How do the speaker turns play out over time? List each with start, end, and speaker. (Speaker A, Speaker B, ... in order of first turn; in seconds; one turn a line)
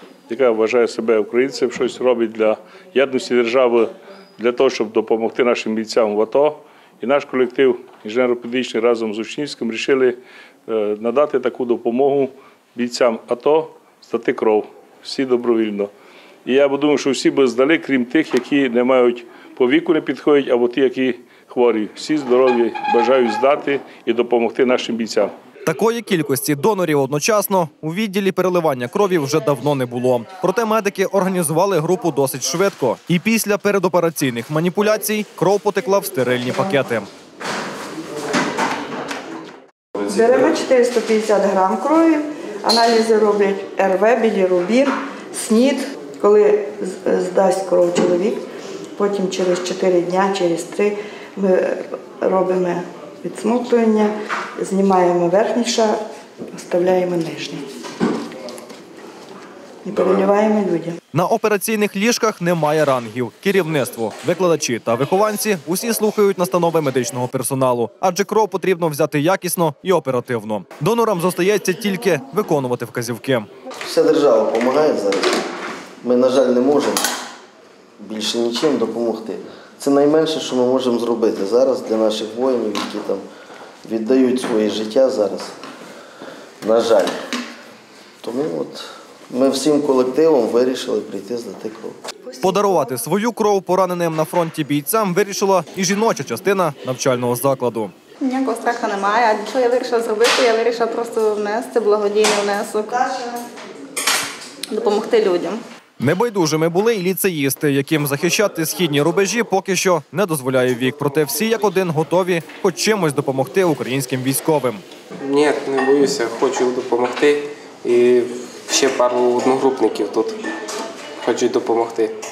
Speaker A: 0.3-15.9
Speaker A: 16.4-25.3
Speaker B: 25.7-37.1
Speaker C: 40.0-48.4
Speaker C: 49.0-56.0
Speaker C: 56.5-57.6
Speaker C: 59.9-61.0
Speaker B: 61.1-73.5
Speaker D: 73.9-75.4
Speaker D: 76.0-77.0
Speaker D: 78.0-83.2
Speaker D: 83.8-85.5
Speaker D: 86.6-87.2
Speaker D: 88.2-92.0
Speaker C: 92.3-92.8
Speaker B: 92.4-97.9
Speaker E: 98.2-102.9
Speaker E: 104.7-105.6
Speaker B: 106.0-114.8
Speaker F: 115.2-120.4
Speaker F: 121.2-122.2